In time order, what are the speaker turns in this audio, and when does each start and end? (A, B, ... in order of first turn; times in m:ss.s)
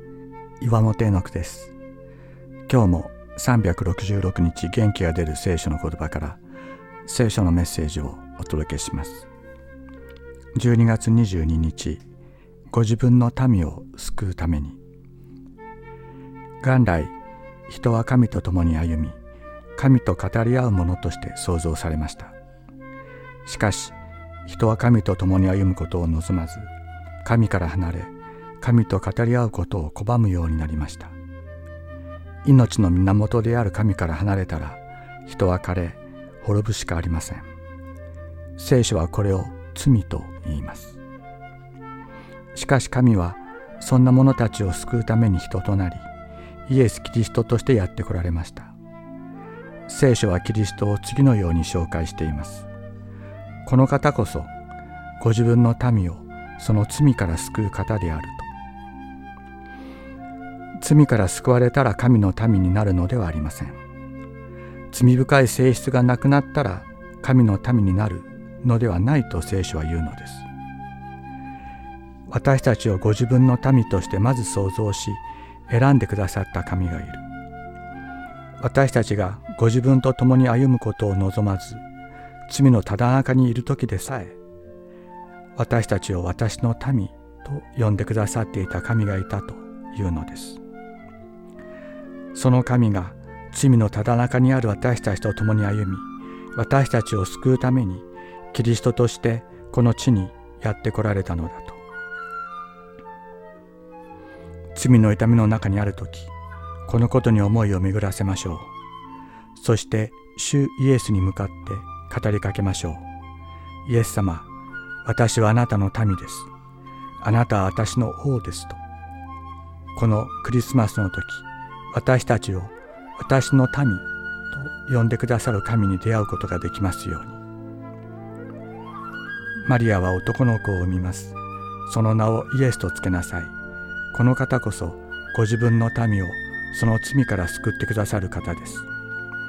0:00.6-0:01.7 A
0:02.7-0:06.4 A
0:07.1-0:09.3 A
0:10.5-0:12.0 A
0:12.7-0:14.8 A
0:16.6-0:17.1 A
0:17.7-0:19.2 A
0:19.8-0:22.3 A
0:23.4-0:24.0 A
0:24.5-0:26.7 A
0:27.2-0:31.2 A
0:32.4-0:37.5 A
0:38.6-0:41.0 A
0:42.5-0:46.1 A
0:46.7-0:48.7 A
0:49.9-0:52.7 A
0:53.6-0:54.5 A
0:55.2-0:58.5 A
1:00.8-1:03.8 A
1:04.9-1:10.5 A
1:12.3-1:17.2 A
1:18.6-1:21.8 A
1:22.5-1:24.4 A
1:25.6-1:30.6 A
1:32.3-1:41.8 A
1:44.8-1:46.3 A
1:46.9-1:48.7 A
1:49.6-1:53.0 A
1:53.8-1:54.5 A
1:55.0-1:56.5 A
1:57.2-1:58.8 A
2:00.0-2:07.4 A
2:09.6-2:13.5 A
2:14.1-2:18.9 A